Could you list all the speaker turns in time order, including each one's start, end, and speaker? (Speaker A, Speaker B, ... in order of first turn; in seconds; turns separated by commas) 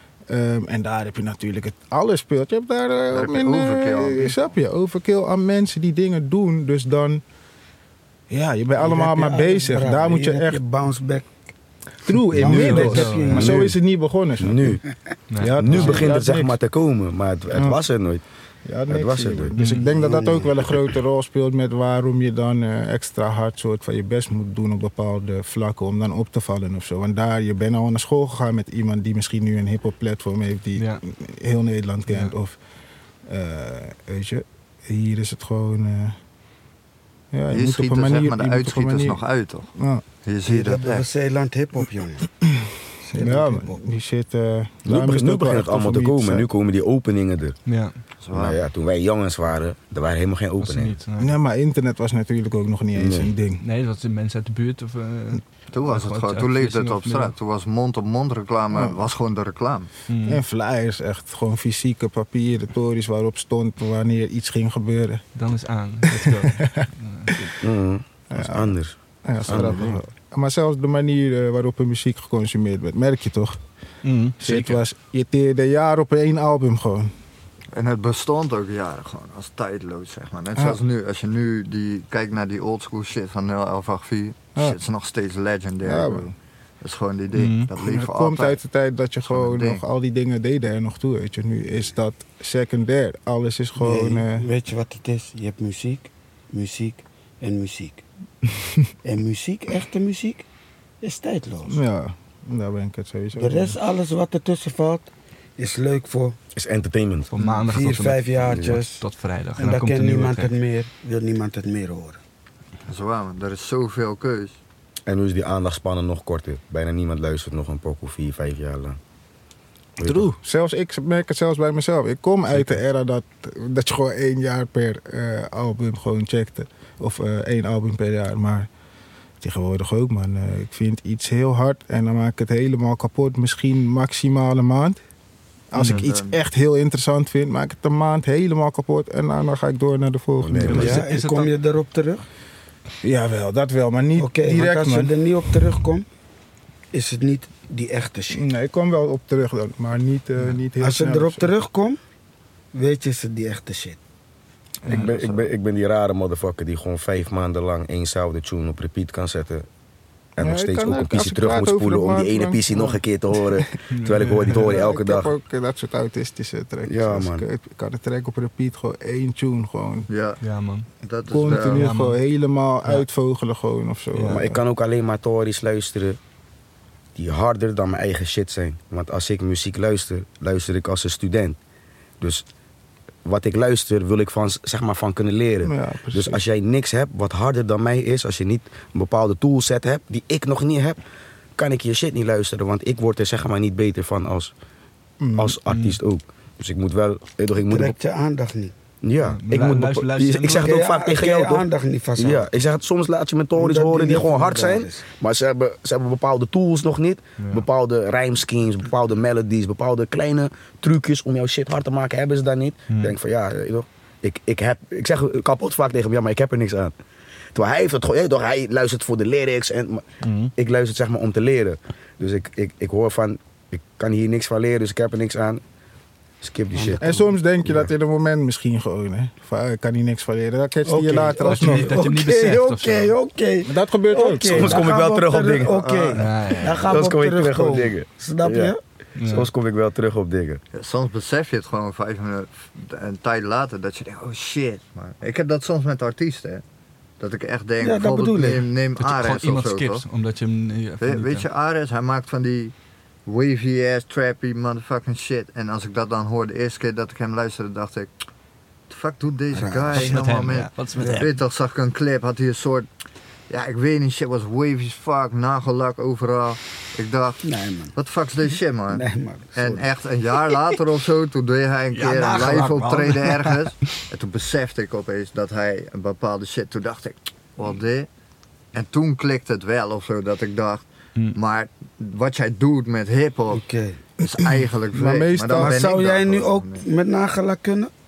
Speaker A: 0.3-7.2, Speaker B: 3.1-4.5, Speaker A: 8.3-10.6, Speaker C: 8.8-11.3, Speaker A: 12.0-14.8, Speaker C: 12.3-13.6, Speaker D: 12.3-13.7, Speaker E: 13.4-13.7, Speaker E: 14.4-14.8, Speaker D: 15.3-16.1, Speaker A: 15.4-16.6, Speaker E: 15.6-18.2, Speaker A: 17.5-17.8, Speaker A: 18.6-32.6, Speaker E: 18.9-19.6, Speaker D: 19.6-19.9, Speaker C: 20.0-20.5, Speaker D: 30.8-31.0, Speaker D: 32.1-32.3, Speaker A: 33.3-36.1, Speaker A: 37.3-39.2, Speaker B: 37.5-39.7, Speaker A: 39.8-40.0, Speaker B: 40.2-41.1, Speaker C: 40.5-42.3, Speaker A: 42.5-46.5, Speaker C: 43.0-43.8, Speaker E: 44.9-47.5, Speaker D: 47.6-47.9, Speaker B: 48.2-48.6, Speaker E: 48.3-51.0, Speaker D: 50.6-51.3, Speaker A: 51.2-53.6, Speaker E: 53.0-53.3, Speaker D: 53.6-57.3, Speaker B: 55.7-59.9, Speaker A: 58.7-59.0, Speaker D: 60.1-60.4, Speaker A: 60.2-65.2, Speaker D: 65.3-67.5, Speaker A: 66.0-67.5, Speaker E: 67.6-68.9, Speaker A: 68.3-73.6, Speaker E: 69.4-70.0, Speaker D: 74.0-74.8, Speaker A: 74.4-77.1, Speaker B: 77.7-88.6, Speaker A: 85.8-86.3, Speaker D: 87.3-87.7, Speaker A: 87.8-94.5, Speaker B: 89.3-89.8, Speaker C: 93.8-98.0, Speaker C: 99.0-100.4, Speaker C: 101.0-101.8, Speaker A: 101.7-103.8, Speaker C: 103.3-106.4, Speaker E: 106.5-107.3, Speaker D: 107.3-110.5, Speaker C: 107.6-109.0, Speaker C: 109.6-112.2, Speaker B: 112.8-114.6, Speaker E: 115.0-119.0, Speaker E: 120.0-120.3, Speaker A: 120.0-128.7, Speaker A: 129.4-135.0, Speaker A: 135.7-141.0, Speaker B: 135.8-136.4, Speaker E: 140.4-141.1, Speaker D: 140.6-141.5, Speaker C: 140.7-142.2, Speaker A: 143.0-145.1, Speaker C: 144.2-146.1, Speaker C: 146.9-148.4, Speaker A: 148.3-151.5, Speaker C: 150.8-152.0, Speaker C: 152.7-154.0, Speaker E: 154.8-159.7, Speaker D: 154.9-155.2, Speaker E: 160.4-165.3, Speaker A: 160.4-163.7, Speaker D: 163.9-164.8, Speaker A: 164.5-170.1, Speaker E: 166.8-167.4, Speaker B: 170.1-170.4, Speaker D: 170.4-170.9, Speaker B: 171.0-171.8, Speaker A: 171.3-174.6, Speaker D: 171.5-172.2, Speaker D: 174.1-174.4, Speaker E: 174.3-176.2, Speaker E: 177.2-181.6, Speaker E: 183.2-191.0, Speaker A: 185.6-186.4, Speaker E: 191.6-194.5, Speaker A: 195.2-195.6, Speaker E: 195.4-198.0, Speaker D: 195.7-196.0, Speaker C: 197.6-198.7, Speaker E: 199.0-216.9, Speaker D: 199.2-200.8, Speaker C: 200.4-202.5, Speaker C: 203.6-205.0, Speaker D: 207.4-207.6, Speaker D: 212.9-213.2, Speaker E: 217.5-225.6, Speaker D: 220.2-220.5, Speaker E: 226.4-227.9, Speaker C: 226.8-227.0, Speaker A: 227.0-232.0, Speaker C: 230.8-238.8, Speaker D: 231.4-233.1, Speaker A: 233.6-234.8, Speaker E: 234.5-235.8, Speaker B: 235.7-236.3, Speaker D: 236.1-236.9, Speaker E: 236.7-240.6, Speaker D: 239.2-239.5, Speaker B: 240.7-246.6, Speaker B: 247.2-250.0, Speaker C: 247.8-248.7, Speaker D: 249.0-251.4, Speaker B: 251.0-252.7, Speaker B: 253.2-258.1, Speaker B: 258.9-262.9, Speaker C: 259.5-260.2, Speaker D: 259.9-261.3, Speaker B: 263.5-278.1, Speaker C: 267.4-267.9, Speaker C: 268.9-269.8, Speaker D: 271.9-273.4, Speaker B: 278.7-283.6, Speaker C: 283.5-284.0, Speaker B: 284.2-286.9, Speaker A: 284.9-285.8, Speaker C: 285.5-287.9